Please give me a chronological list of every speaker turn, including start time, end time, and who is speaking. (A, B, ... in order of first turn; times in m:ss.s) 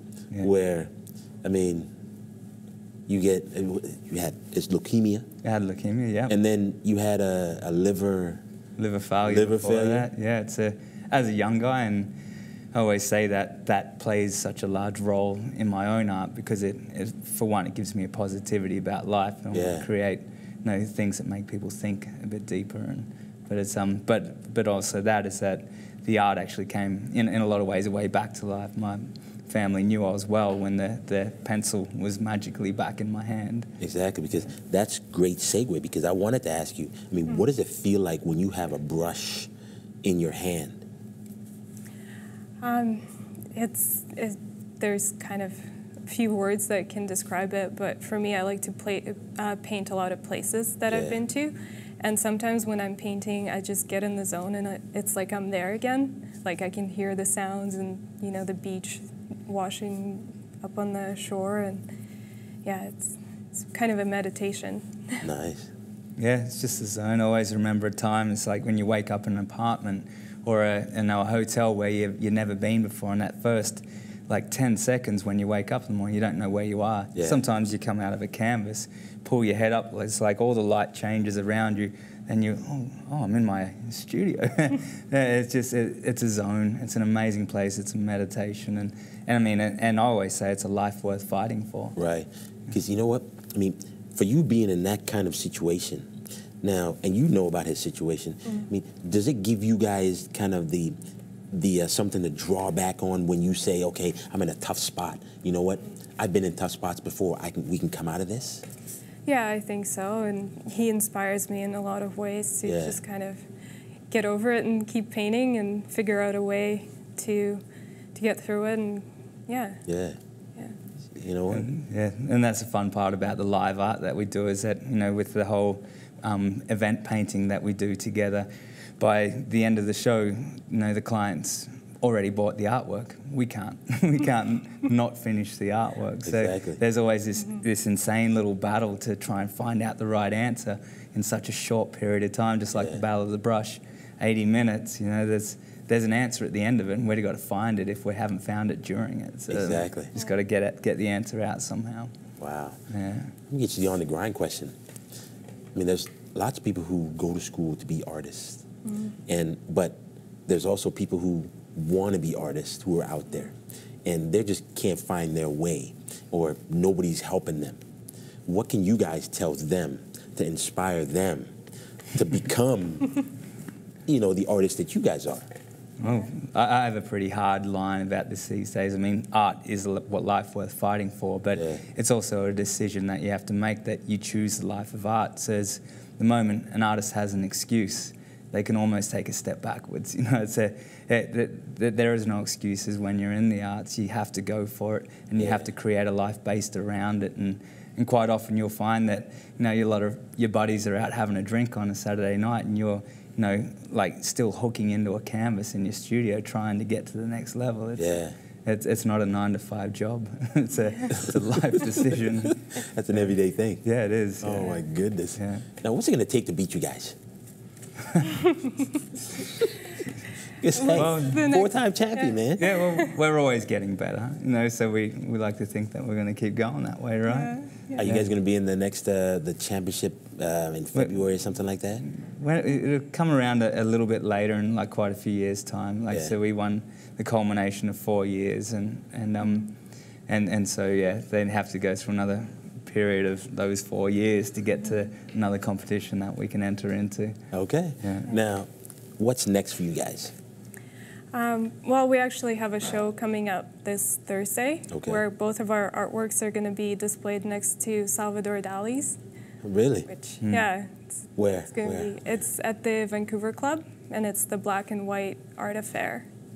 0:00.4-0:00.9 A
0:01.4-0:01.9 A
0:03.1-0:05.3 A
0:05.4-0:06.4 B
0:06.3-0:08.4 A
0:08.8-0:12.1 B
0:09.2-0:10.1 A
0:12.7-0:33.7 B
0:19.5-0:19.9 A
0:33.8-0:39.5 A
0:40.0-0:40.8 A
0:42.6-1:01.9 C
0:50.9-0:51.2 A
1:02.6-1:05.3 C
1:05.2-1:05.7 A
1:06.2-1:32.0 B
1:17.2-1:17.4 A
1:32.0-1:36.1 A
1:36.6-1:41.0 A
1:41.5-1:48.6 A
1:49.3-1:53.5 C
1:52.6-1:53.0 A
1:54.1-1:57.6 C
1:58.2-1:59.8 C
1:59.9-2:00.2 A
2:01.1-2:01.7 A
2:01.5-2:32.1 B
2:16.2-2:16.8 A
2:22.7-2:23.0 A
2:29.5-2:30.1 A
2:32.4-2:32.8 A
2:32.9-2:33.3 B
2:33.5-2:34.8 A
2:35.8-2:38.6 A
2:38.9-2:39.2 C
2:39.3-2:47.8 A
2:48.5-2:51.6 A
2:52.2-2:53.2 A
2:54.1-2:55.5 A
2:56.0-3:34.8 B
3:01.6-3:01.8 A
3:15.4-3:15.7 A
3:28.0-3:28.4 A
3:32.7-3:33.8 A
3:34.4-3:37.2 A
3:35.4-3:35.7 B
3:38.1-3:38.4 B
3:40.6-3:42.7 A
3:40.8-3:43.1 C
3:40.9-3:41.5 B
3:42.6-3:48.3 B
3:47.3-3:48.0 C
3:48.0-3:52.0 A
3:50.9-3:51.3 B
3:52.0-3:59.8 B
3:56.1-3:56.4 A
4:00.3-4:07.4 B
4:07.5-4:10.3 A
4:08.0-4:08.3 B
4:11.3-4:19.2 C
4:14.9-4:15.2 A
4:19.6-4:20.1 A
4:20.1-4:26.3 C
4:20.4-4:20.7 B
4:21.4-4:22.4 A